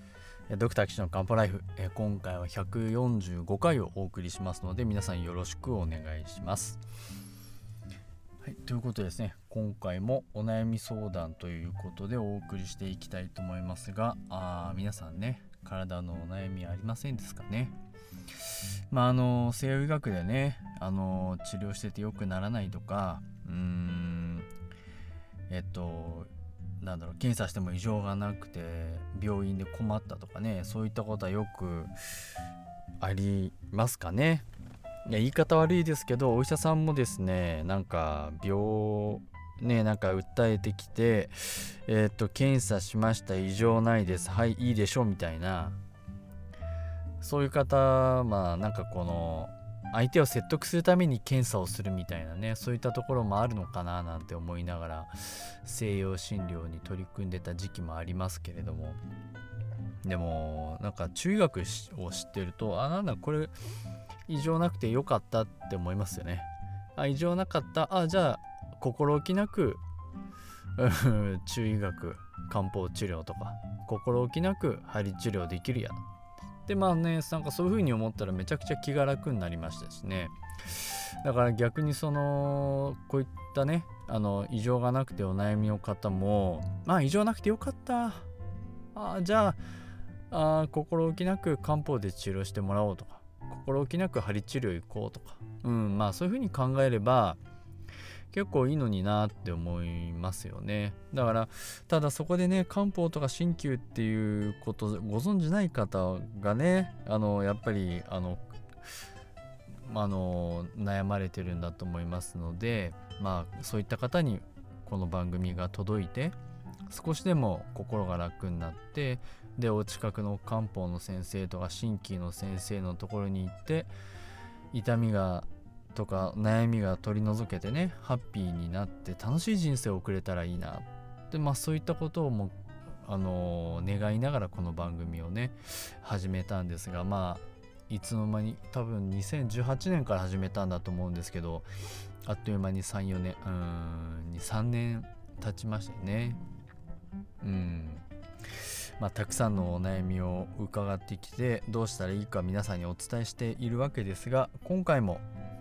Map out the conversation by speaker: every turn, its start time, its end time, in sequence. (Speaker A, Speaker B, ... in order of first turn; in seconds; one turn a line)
Speaker A: 0.5-6.8
Speaker A: 8.4-17.8
Speaker A: 18.4-24.5
Speaker A: 25.5-31.9
Speaker A: 33.0-34.5
Speaker A: 35.1-45.8
Speaker A: 47.2-59.0
Speaker A: 60.0-63.5
Speaker A: 64.3-69.8
Speaker A: 70.8-76.0
Speaker A: 76.7-88.3
Speaker A: 88.9-89.6
Speaker A: 90.3-97.4
Speaker A: 98.3-108.5
Speaker A: 109.8-116.4
Speaker A: 116.9-123.9
Speaker A: 124.7-141.7
Speaker A: 142.2-146.4
Speaker A: 147.4-155.2